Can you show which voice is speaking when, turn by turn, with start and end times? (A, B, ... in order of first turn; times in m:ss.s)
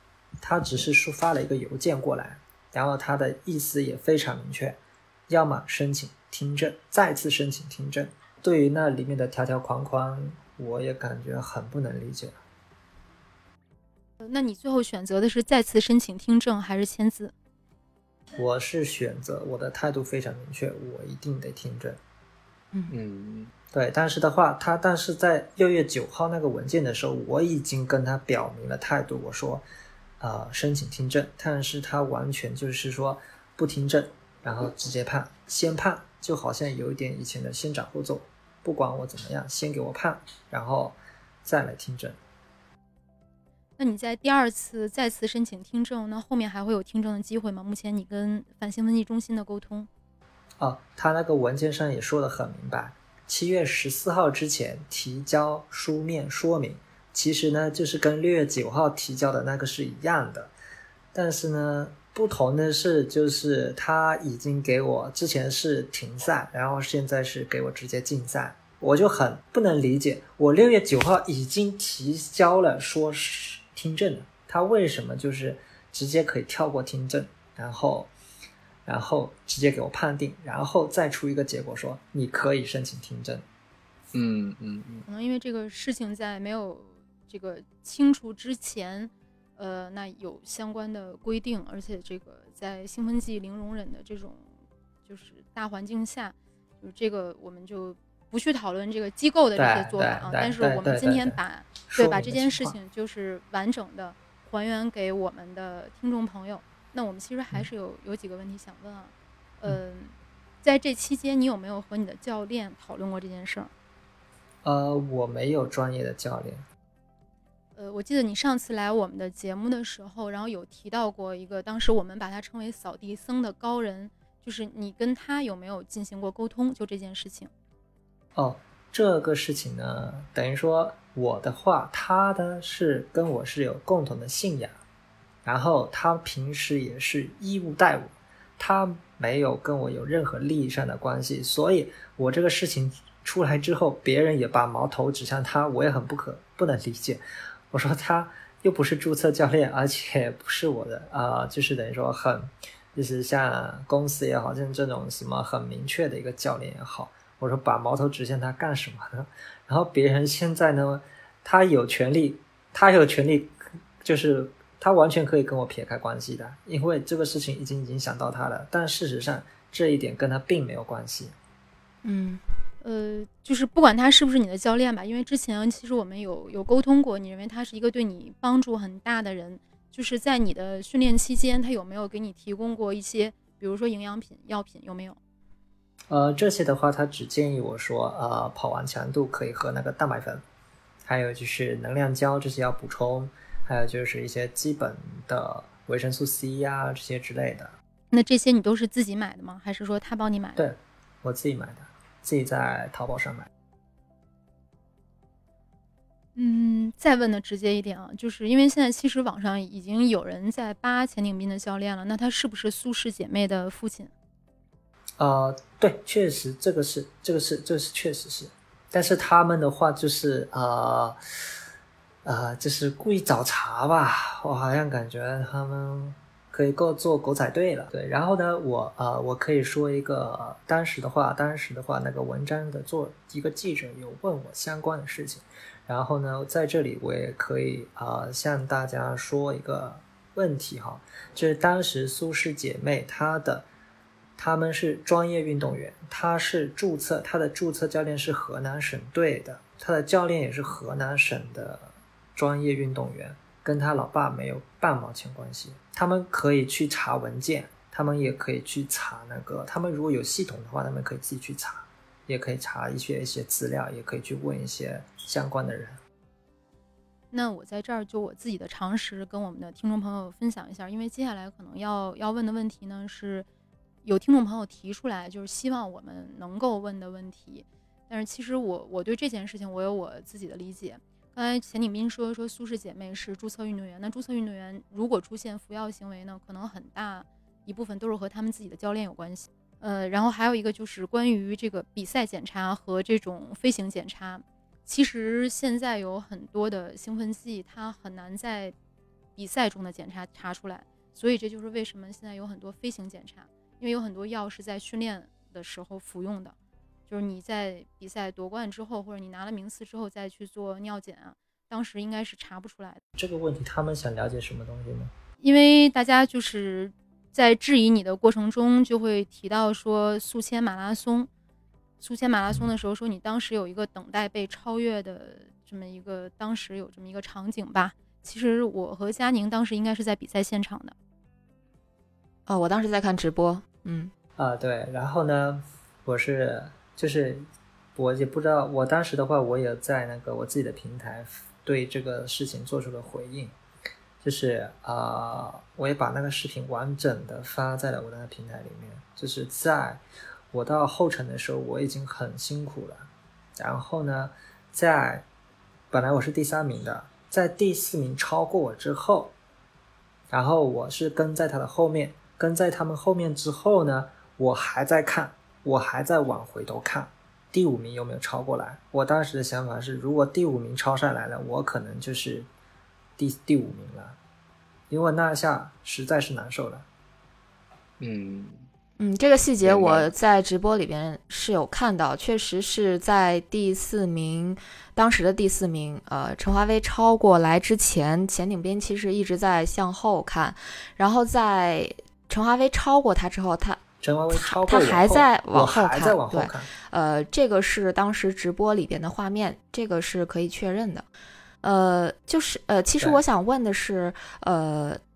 0:00.4-0:12.4 A
0:14.2-0:17.3 B
0:18.4-0:22.0 A
0:22.9-0:23.5 C
0:23.7-0:29.6 A
0:30.2-0:42.2 A
0:43.8-0:49.9 B
0:50.6-1:00.5 A
1:01.1-1:18.1 A
1:18.8-1:23.5 A
1:24.1-1:25.1 C
1:25.1-1:34.5 B
1:35.1-1:53.7 B
1:39.6-1:42.8 A
1:54.6-1:56.7 A
1:57.8-2:07.5 B
2:08.4-2:14.8 A
2:15.4-2:51.4 A
2:52.0-2:52.4 D
2:52.8-3:05.2 B
3:06.1-3:10.4 A
3:11.1-3:17.8 A
3:18.1-3:20.7 B
3:20.6-3:23.5 A
3:26.4-3:34.1 B
3:35.2-3:41.2 A
3:42.2-4:03.7 A
4:04.4-4:26.0 A
4:27.3-4:33.5 B
4:34.0-4:58.7 B
4:59.4-5:06.6 B
5:07.1-5:13.0 B
5:13.2-5:15.1 A
5:15.4-5:21.3 B
5:22.0-5:30.9 B
5:32.5-5:34.1 D
5:34.4-5:43.6 A
5:44.2-5:55.3 A
5:55.9-5:59.3 A
6:00.3-6:12.5 A
6:13.2-6:14.2 A
6:14.9-6:16.9 A
6:18.0-6:18.7 C
6:19.0-6:33.8 D
6:19.6-6:20.1 C
6:34.0-6:36.7 A
6:34.3-6:41.1 D
6:41.6-6:45.0 D